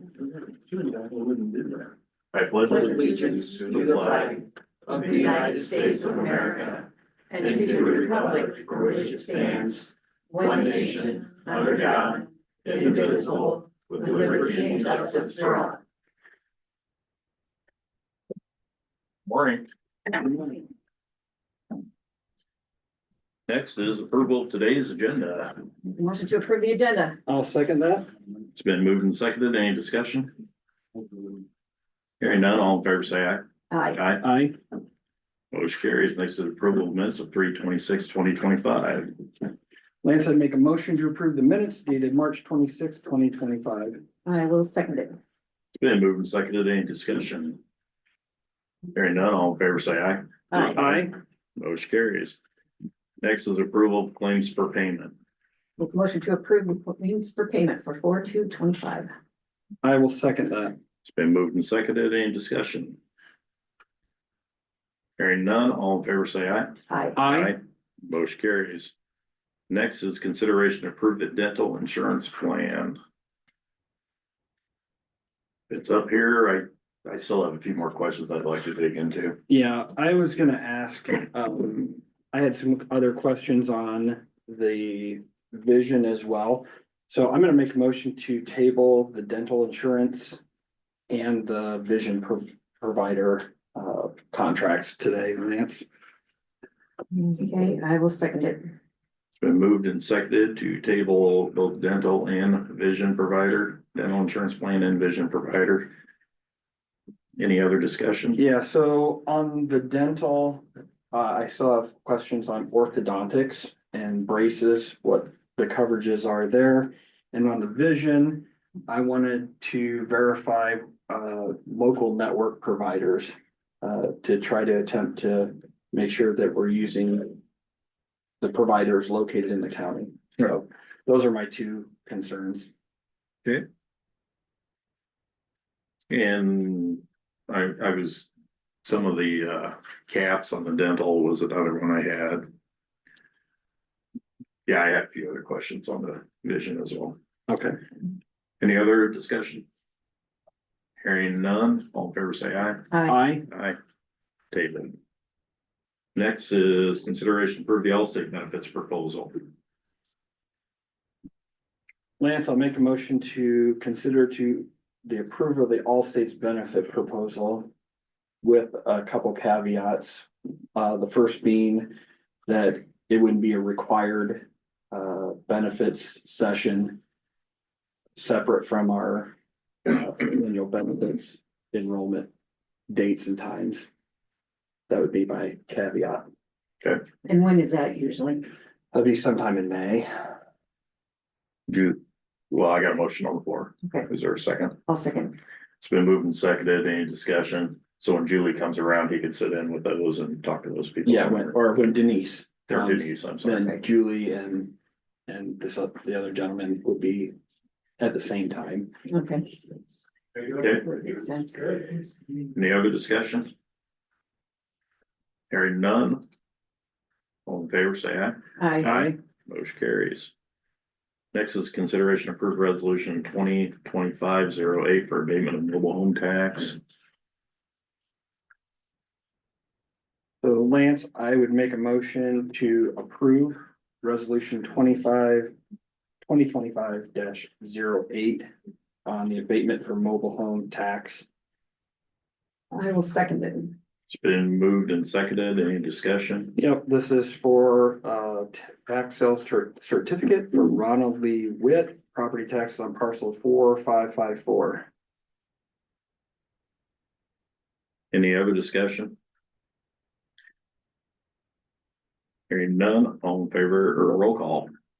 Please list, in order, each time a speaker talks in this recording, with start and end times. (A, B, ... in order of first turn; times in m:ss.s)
0:00.7-0:01.8 A
0:02.3-0:06.8 B
0:02.7-0:04.4 C
0:02.8-0:06.8 A
0:04.9-0:06.8 C
0:07.3-0:09.8 C
0:07.4-0:11.2 A
0:07.4-0:09.6 B
0:10.3-0:15.7 C
0:11.5-0:15.7 B
0:12.8-0:13.3 A
0:19.3-0:19.7 B
0:23.5-0:25.7 B
0:25.9-0:27.2 C
0:27.3-0:28.1 A
0:28.6-0:30.3 B
0:32.2-0:34.2 B
0:33.7-0:34.0 C
0:34.2-0:34.6 A
0:35.5-0:39.2 B
0:40.0-0:44.0 A
0:44.3-0:45.2 C
0:45.8-0:47.6 B
0:48.9-0:52.4 B
0:50.5-0:50.8 C
0:50.8-0:51.2 A
0:53.2-0:55.2 B
0:55.8-0:59.1 C
0:59.8-1:00.8 A
1:01.0-1:03.0 B
1:05.2-1:08.9 B
1:06.9-1:07.2 C
1:07.2-1:07.6 A
1:09.7-1:13.0 B
1:15.7-1:19.4 B
1:19.5-1:30.4 A
1:31.1-1:35.9 A
1:37.1-1:38.7 C
1:39.4-1:45.9 B
1:47.4-1:48.4 B
1:48.4-2:07.4 A
2:08.4-2:12.7 A
2:16.1-2:18.3 B
2:18.8-2:22.5 B
2:24.7-2:27.2 B
2:27.5-2:27.8 A
2:28.6-2:29.6 B
2:31.0-2:32.9 B
2:32.9-2:33.2 C
2:33.1-2:33.5 A
2:33.5-2:33.8 B
2:34.5-2:35.0 B
2:36.2-2:39.4 B
2:42.2-2:47.7 A
2:48.4-2:51.9 A
2:52.5-2:57.0 A
2:58.2-2:59.3 A
2:59.9-3:02.3 A
3:02.9-3:03.9 A
3:04.9-3:06.2 A
3:07.2-3:08.5 C
3:08.9-3:10.3 A
3:11.7-3:12.0 B
3:12.5-3:14.8 B
3:14.9-3:15.4 C
3:15.8-3:21.9 B
3:21.0-3:24.7 A
3:22.7-3:23.7 B
3:25.3-3:27.3 A
3:28.0-3:28.9 A
3:29.1-3:29.5 C
3:30.5-3:30.9 B
3:30.8-3:31.8 C
3:32.5-3:33.5 B
3:35.5-3:36.2 B
3:37.5-3:40.3 B
3:38.6-3:39.0 C
3:38.8-3:39.2 A
3:41.3-3:46.8 B
3:50.4-3:55.5 A
3:56.2-3:58.5 A
3:59.0-4:01.3 A
4:02.7-4:03.8 C
4:04.1-4:06.6 B
4:06.6-4:14.9 A
4:18.1-4:19.2 B
4:22.5-4:24.7 B